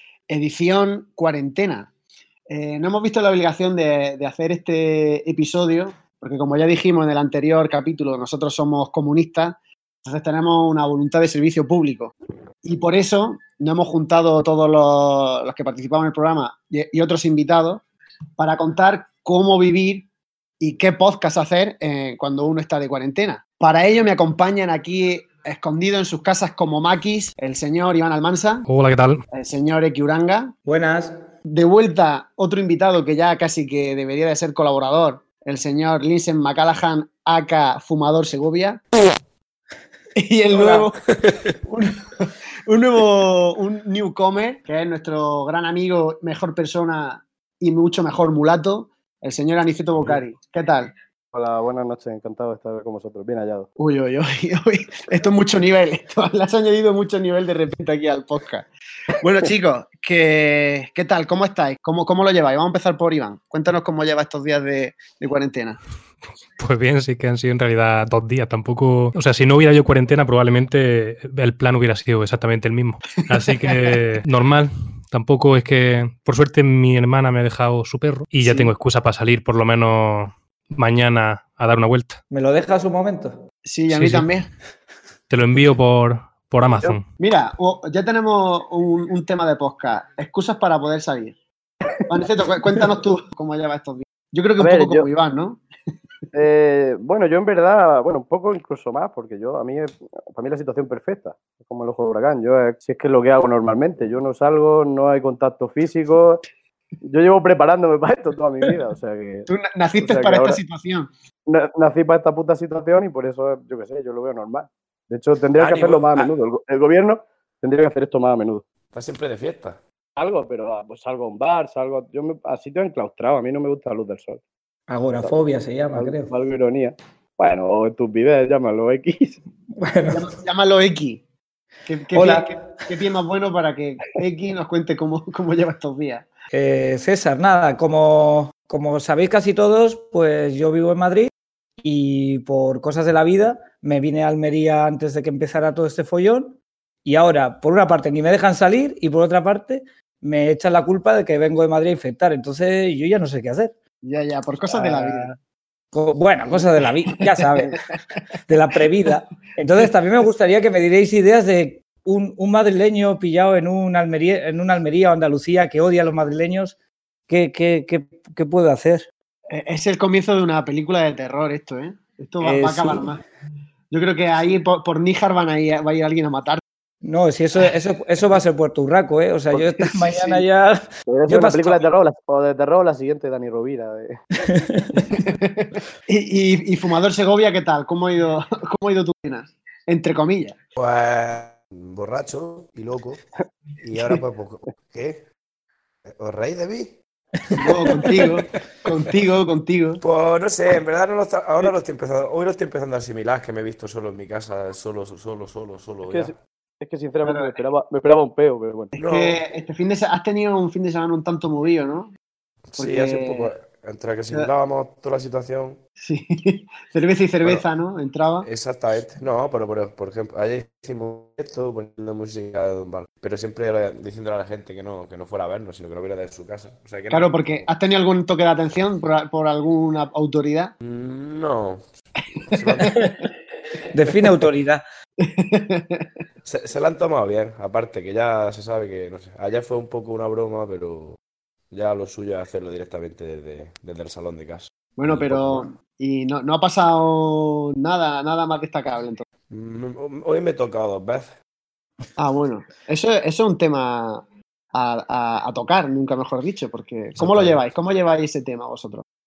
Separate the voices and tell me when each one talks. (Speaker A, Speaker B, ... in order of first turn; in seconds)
Speaker A: 0.3-1.9, 2.5-17.8, 18.4-20.1, 20.6-28.7, 29.3-30.5, 31.4-38.8, 40.1-41.0, 41.6-50.9, 53.8-58.6, 59.2-65.8, 78.4-78.7, 83.6-84.5, 87.2-91.3, 92.0-95.6, 109.5-111.1, 130.1-131.2, 131.9-136.2, 154.0-155.3, 157.1-157.8, 169.5-173.2, 173.9-176.6, 179.7-180.4, 185.0-190.6, 193.9-194.2, 197.5-200.0, 207.2-207.6, 208.9-212.1, 212.8-213.5, 216.0-218.5, 227.1-230.7, 232.5-233.1, 235.2-236.1, 245.0-249.2, 252.2-259.0
Speaker B: 28.7-29.2, 66.6-82.2, 83.9-84.3, 85.3-87.1
Speaker C: 30.6-31.2, 82.3-83.4, 124.9-126.3, 129.7-130.3, 132.1-132.8, 136.5-141.3, 141.8-153.7, 154.7-155.3, 155.9-157.8, 158.5-166.8, 167.3-169.1, 172.4-173.2, 177.0-181.8, 184.3-185.2, 197.5-198.1, 233.9-234.8
Speaker D: 40.7-41.5, 115.6-116.3, 118.9-119.8, 190.8-193.2, 193.8-195.2, 196.0-197.0, 200.0-206.3, 209.0-209.4, 212.7-215.8, 218.4-227.7, 230.8-231.8, 232.5-233.0, 236.4-241.2, 241.7-245.7, 249.5-251.3, 257.2-257.6
Speaker E: 51.3-53.7, 94.6-95.1, 96.3-106.4, 107.0-110.6, 111.5-118.6, 120.2-124.4, 125.2-129.4, 181.1-184.2, 206.1-208.9